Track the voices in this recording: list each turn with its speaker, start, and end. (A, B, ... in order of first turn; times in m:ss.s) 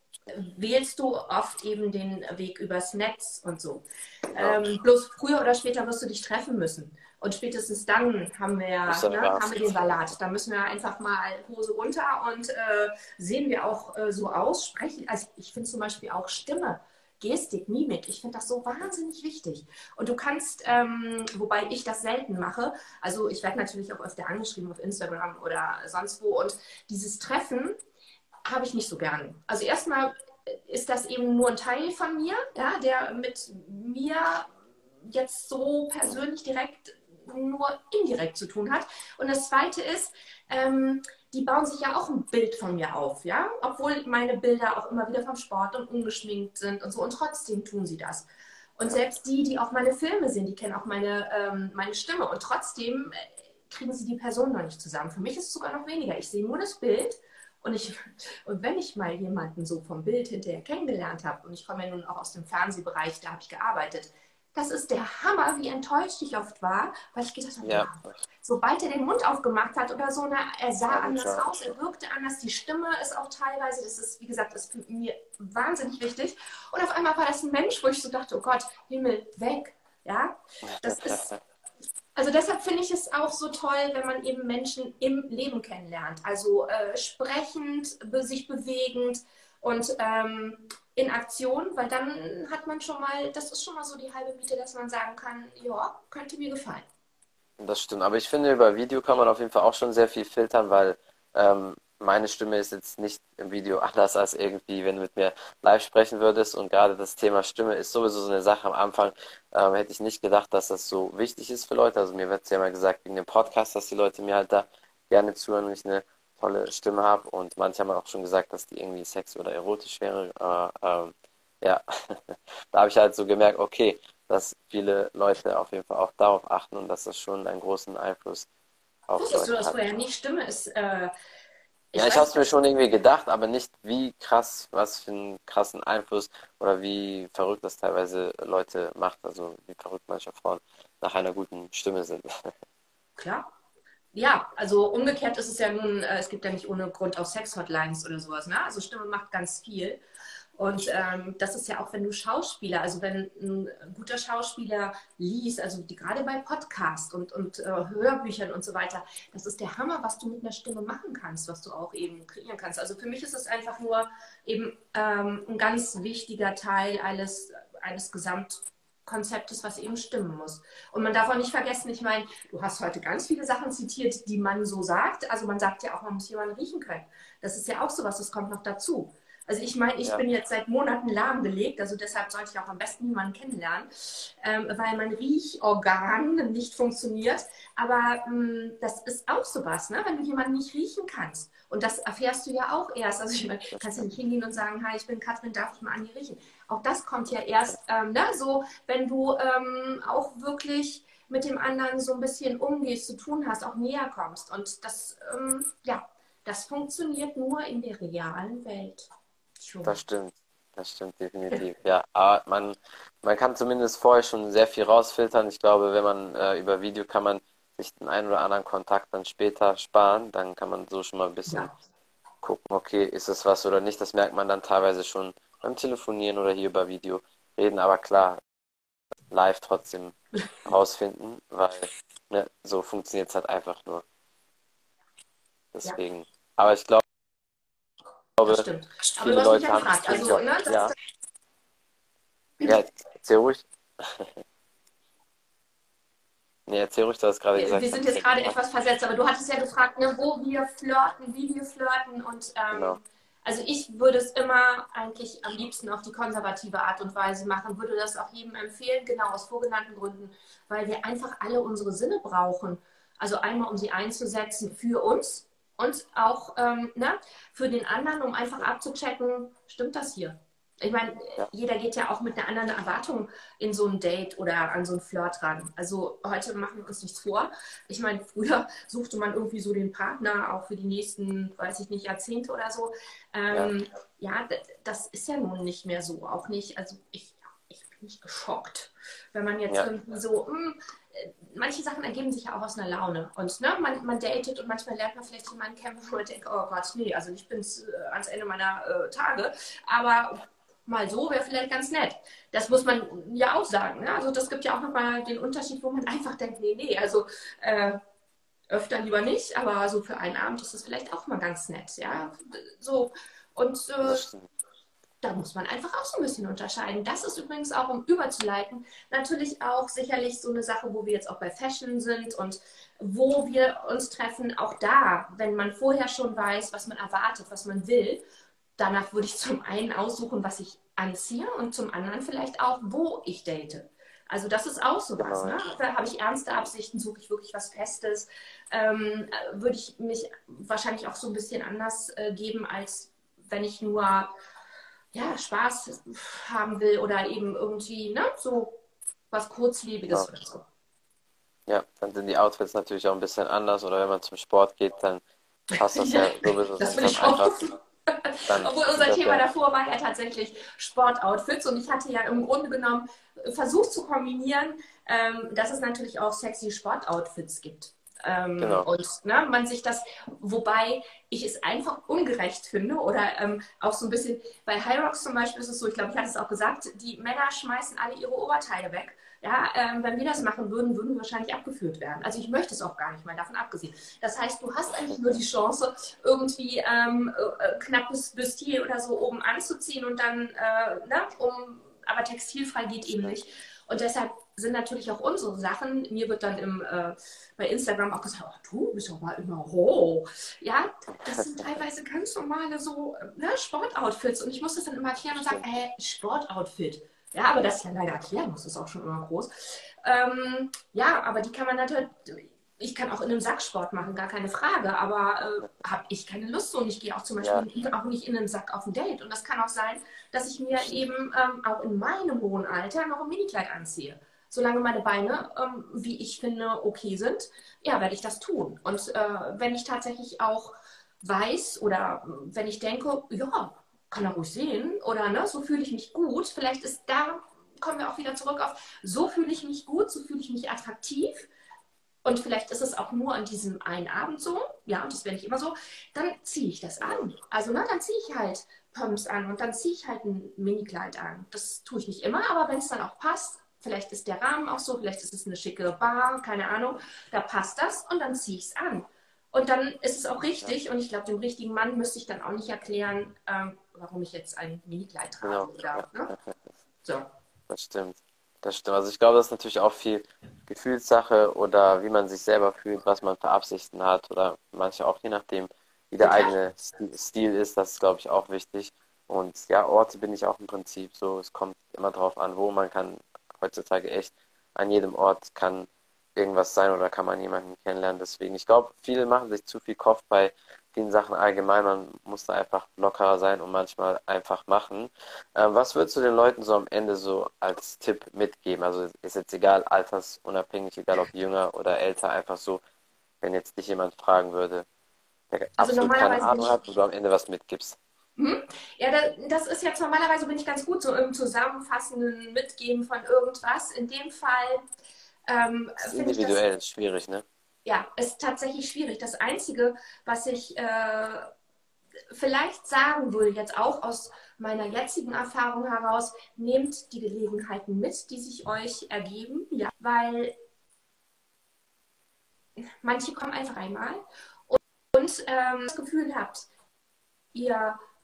0:00.3-0:27.8 A
0:04.4-0:04.6 B
0:08.9-0:10.1 B
0:28.5-0:34.5 A
0:35.1-1:21.3 A
1:07.6-1:08.2 B
1:10.9-1:11.7 B
1:20.6-1:21.4 B
1:22.2-1:36.9 A
1:37.6-2:08.5 B
2:09.1-2:09.9 B
2:09.2-2:11.1 A
2:11.9-2:12.4 A
2:12.0-2:22.5 B
2:23.2-2:23.5 A
2:24.1-2:30.0 A
2:30.6-3:30.0 A
3:13.8-3:14.0 B
3:29.8-3:41.7 B
3:41.5-3:41.7 A
3:42.4-3:48.4 B
3:49.3-3:54.0 B
3:55.7-3:57.0 B
3:58.4-3:58.7 B
3:58.4-4:00.9 A
3:59.2-4:00.9 B
4:02.6-4:04.4 B
4:06.7-4:08.6 B
4:07.6-5:08.0 A
4:12.7-4:13.0 B
5:08.7-5:14.3 A
5:14.0-5:14.5 B
5:15.2-5:28.2 A
5:28.8-5:44.3 A
5:35.2-5:35.6 B
5:45.1-5:48.8 A
5:49.3-5:50.6 A
5:51.7-5:55.2 B
5:55.8-5:57.7 B
5:55.8-7:21.5 A
5:58.5-5:59.4 B
6:08.6-6:08.9 B
6:25.1-6:25.3 B
6:41.2-6:41.7 B
6:45.4-6:45.6 B
6:57.4-6:57.7 B
7:22.2-7:46.3 A
7:45.4-7:46.6 B
7:47.0-7:47.3 A
7:47.7-8:22.8 B
7:56.2-7:56.5 A
8:23.4-8:24.9 B
8:25.5-8:28.0 B
8:25.8-8:26.8 A
8:28.4-8:34.8 A
8:35.5-8:36.6 A
8:36.0-8:37.4 B
8:37.8-8:41.5 A
8:42.3-8:50.6 A
8:53.0-8:56.7 A
8:57.5-8:58.0 A